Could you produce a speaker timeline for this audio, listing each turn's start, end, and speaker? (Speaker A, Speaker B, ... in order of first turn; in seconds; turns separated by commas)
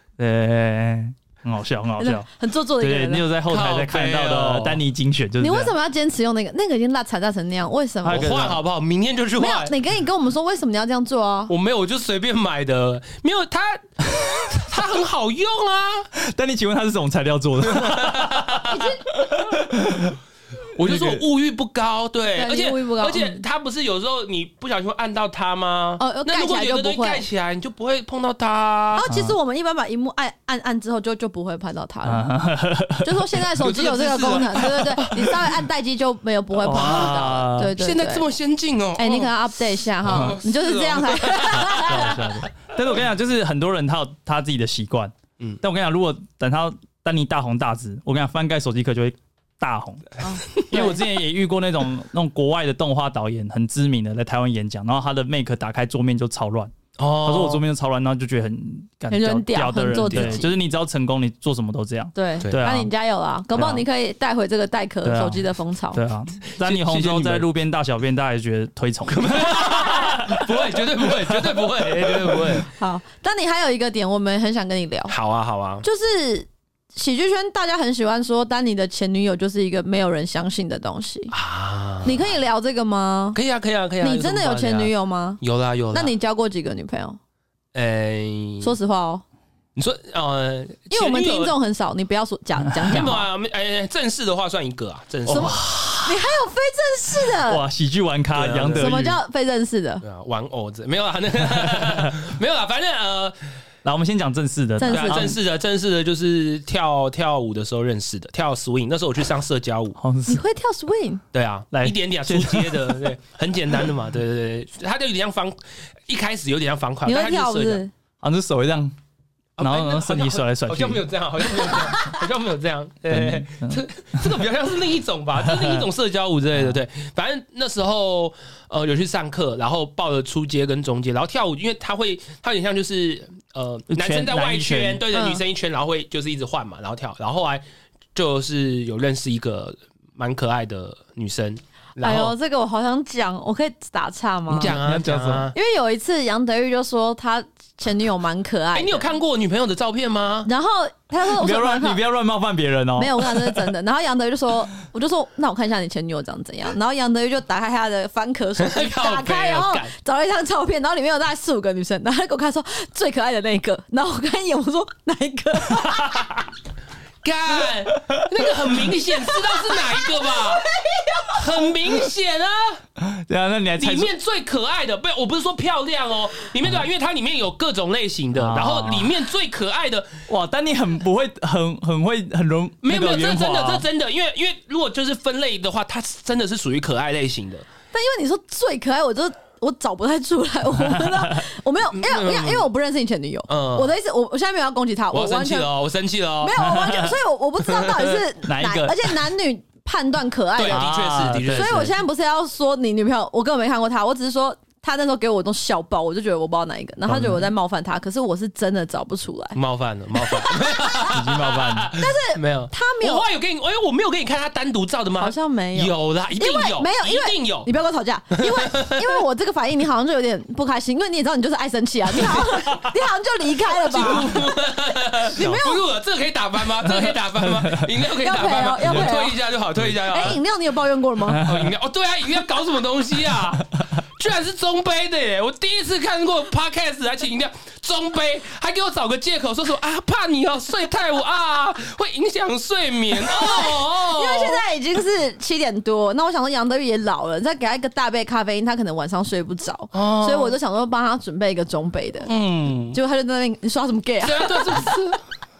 Speaker A: 0.2-2.3, Speaker B: 2.0-3.2, Speaker A: 2.8-5.7, Speaker C: 3.5-4.8, Speaker B: 5.4-8.4, Speaker A: 8.0-8.6, Speaker C: 8.1-9.8, Speaker B: 9.4-11.5, Speaker C: 11.5-16.1, Speaker A: 16.1-20.2, Speaker C: 17.6-18.9, Speaker B: 18.7-19.0, Speaker C: 20.8-29.1, Speaker A: 20.8-21.2, Speaker B: 22.4-23.4, Speaker B: 26.0-27.2, Speaker B: 28.9-32.3, Speaker A: 29.1-29.4, Speaker A: 32.0-33.4, Speaker B: 33.0-38.2, Speaker C: 33.6-35.6, Speaker A: 36.6-37.7, Speaker C: 36.7-42.3, Speaker B: 39.0-42.1, Speaker A: 40.1-40.4, Speaker A: 41.7-62.9, Speaker B: 50.2-51.0, Speaker C: 57.0-57.6, Speaker B: 59.1-60.5, Speaker C: 60.0-60.4, Speaker B: 62.1-66.0, Speaker A: 63.5-63.8, Speaker A: 65.0-70.5, Speaker C: 66.5-67.5, Speaker C: 69.1-72.7, Speaker B: 72.8-75.1, Speaker C: 75.1-75.8, Speaker B: 75.8-81.3, Speaker C: 81.3-82.3, Speaker B: 82.0-83.4, Speaker C: 83.3-86.2, Speaker B: 84.0-87.2, Speaker C: 87.7-88.8, Speaker B: 88.6-89.2, Speaker C: 89.8-91.5, Speaker B: 90.9-93.3, Speaker A: 92.8-93.1, Speaker C: 92.9-95.8, Speaker A: 95.3-95.9, Speaker B: 95.3-97.6, Speaker A: 97.4-99.2, Speaker C: 98.3-98.9, Speaker B: 98.7-100.0, Speaker C: 100.0-103.4, Speaker A: 103.8-105.3, Speaker B: 104.8-105.3, Speaker C: 104.9-110.0, Speaker A: 110.0-110.4, Speaker B: 110.3-111.2, Speaker C: 111.3-117.8, Speaker A: 111.7-113.1, Speaker B: 117.0-117.9, Speaker A: 118.2-118.9, Speaker C: 119.6-137.6, Speaker A: 119.6-121.0, Speaker A: 123.1-123.8, Speaker A: 125.4-125.8, Speaker A: 133.9-135.0, Speaker B: 135.1-135.4, Speaker C: 138.1-142.3, Speaker B: 142.0-144.8, Speaker A: 144.5-145.5, Speaker C: 144.5-145.5, Speaker B: 145.5-149.1, Speaker C: 148.7-150.5, Speaker B: 150.4-152.0, Speaker A: 151.3-153.7, Speaker B: 152.9-166.4, Speaker C: 158.6-159.9, Speaker A: 165.8-166.4, Speaker C: 167.2-170.7, Speaker A: 167.8-168.5, Speaker B: 169.3-171.7, Speaker C: 171.3-172.8, Speaker A: 173.0-174.1, Speaker C: 173.8-180.2, Speaker A: 178.3-179.2, Speaker A: 180.3-183.8, Speaker C: 182.8-187.7, Speaker B: 187.9-195.7, Speaker A: 190.8-191.4, Speaker C: 191.9-192.7, Speaker C: 193.5-193.9, Speaker C: 195.1-196.7, Speaker B: 196.4-200.8, Speaker C: 197.6-198.2, Speaker A: 198.4-199.2, Speaker C: 200.6-201.9, Speaker A: 200.7-201.9, Speaker B: 201.4-209.6, Speaker A: 207.1-207.5, Speaker C: 209.5-217.7, Speaker B: 210.2-211.1, Speaker A: 211.1-211.9, Speaker B: 211.9-213.3, Speaker B: 215.2-224.5, Speaker C: 218.3-219.2, Speaker C: 222.1-222.9, Speaker C: 223.7-230.4, Speaker B: 225.2-225.8, Speaker A: 226.9-227.8, Speaker B: 228.1-229.4, Speaker B: 230.0-231.4, Speaker A: 231.3-231.7, Speaker C: 231.4-244.6, Speaker B: 243.2-252.3, Speaker C: 249.9-250.5, Speaker C: 252.3-253.0, Speaker B: 252.9-254.9, Speaker C: 254.2-255.2